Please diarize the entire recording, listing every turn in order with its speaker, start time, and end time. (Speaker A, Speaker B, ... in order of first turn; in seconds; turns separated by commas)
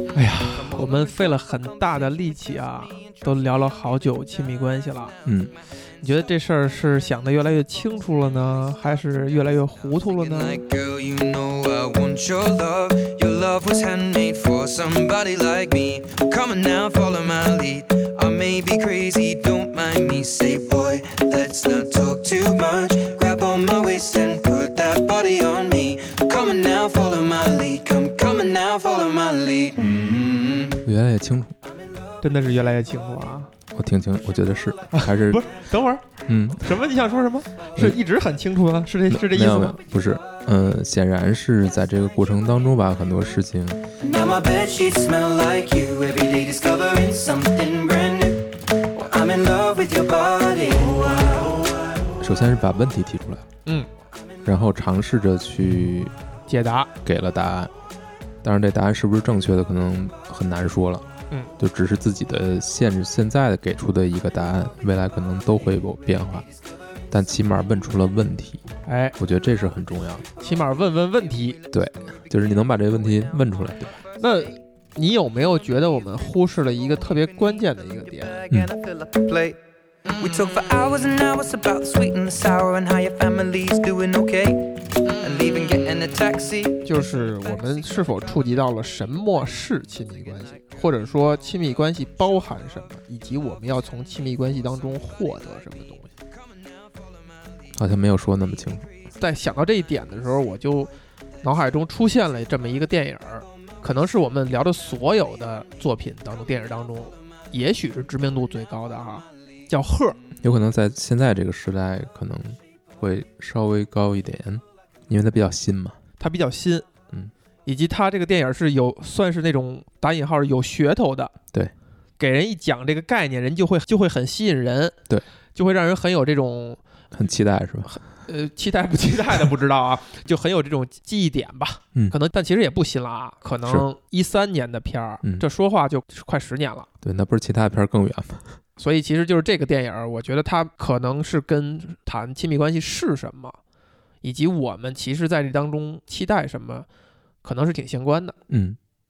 Speaker A: 0.1-5.2, Speaker B: 5.2-5.5, Speaker A: 6.0-10.6, Speaker C: 10.2-30.8, Speaker B: 30.9-31.6, Speaker A: 32.2-33.5, Speaker B: 33.7-35.4, Speaker A: 34.9-39.8, Speaker B: 36.3-36.6, Speaker B: 39.1-43.8, Speaker C: 44.0-51.8, Speaker B: 52.2-53.5, Speaker B: 54.5-56.1, Speaker A: 56.5-56.9, Speaker B: 57.0-57.7, Speaker B: 58.4-61.1, Speaker B: 61.6-66.5, Speaker B: 67.1-68.7, Speaker A: 68.9-69.2, Speaker B: 69.2-70.3, Speaker A: 70.4-71.6, Speaker B: 71.7-74.0, Speaker A: 74.2-78.5, Speaker C: 78.5-79.6, Speaker C: 80.1-86.8, Speaker A: 86.8-96.1, Speaker B: 97.8-98.9, Speaker A: 99.2-100.9, Speaker A: 101.4-110.2, Speaker B: 110.4-116.0, Speaker A: 116.2-116.9, Speaker A: 117.7-121.3, Speaker A: 122.2-125.0, Speaker A: 125.5-126.8, Speaker B: 127.1-127.9, Speaker A: 127.8-136.9, Speaker B: 137.0-138.5, Speaker A: 138.8-143.6, Speaker A: 144.2-146.9, Speaker A: 147.4-148.3, Speaker B: 148.5-148.8